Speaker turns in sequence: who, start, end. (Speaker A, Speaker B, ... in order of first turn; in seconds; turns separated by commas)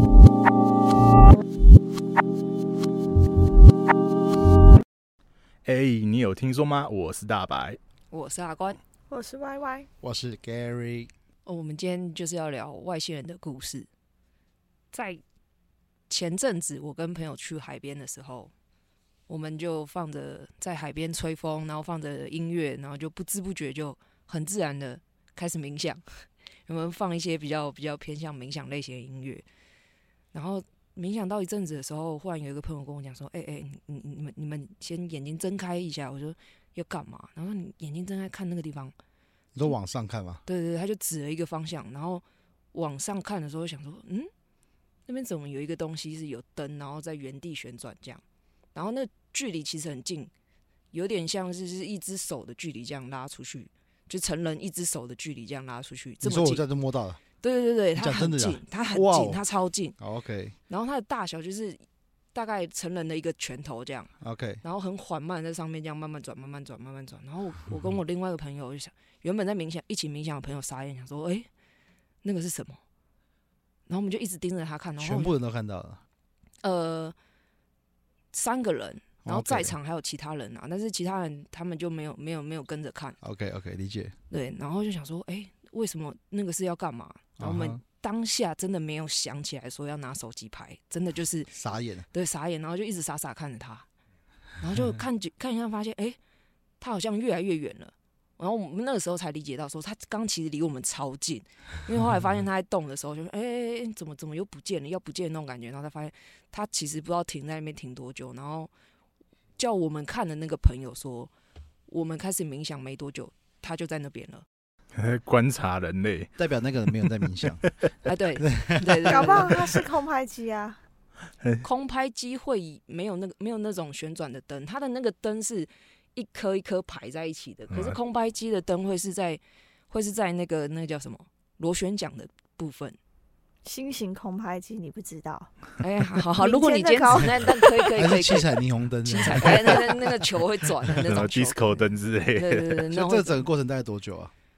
Speaker A: 5.7-7.8, Speaker B: 8.1-8.8, Speaker C: 9.1-9.9, Speaker D: 10.0-11.1, Speaker B: 11.5-13.9, Speaker B: 14.9-15.2, Speaker B: 16.1-18.5, Speaker B: 19.3-29.4, Speaker B: 30.3-38.9, Speaker D: 39.5-40.4, Speaker B: 40.5-44.3, Speaker B: 45.1-48.2, Speaker B: 48.7-50.3, Speaker B: 50.9-56.6, Speaker D: 56.2-57.2, Speaker B: 57.4-60.0, Speaker D: 58.0-59.4, Speaker D: 60.0-60.6, Speaker B: 60.7-61.8, Speaker B: 62.3-64.1, Speaker D: 64.2-64.6, Speaker B: 64.6-71.5, Speaker B: 72.2-72.8, Speaker B: 73.9-75.3, Speaker D: 75.0-76.0, Speaker B: 76.6-77.2, Speaker B: 78.3-83.2, Speaker D: 79.2-79.8, Speaker D: 83.2-84.2, Speaker B: 84.3-91.5, Speaker D: 87.4-87.8, Speaker D: 91.5-92.1, Speaker B: 92.1-93.9, Speaker B: 94.6-96.2, Speaker B: 96.8-108.7, Speaker B: 109.6-111.3, Speaker B: 111.9-114.5, Speaker A: 115.0-116.3, Speaker D: 116.4-117.7, Speaker B: 118.0-119.6, Speaker D: 118.4-119.8, Speaker C: 119.1-120.8, Speaker B: 121.6-133.0, Speaker A: 127.7-128.0, Speaker C: 133.7-135.5, Speaker B: 135.8-143.5, Speaker C: 136.4-138.0, Speaker D: 138.0-140.1, Speaker A: 141.0-142.8, Speaker D: 142.9-144.3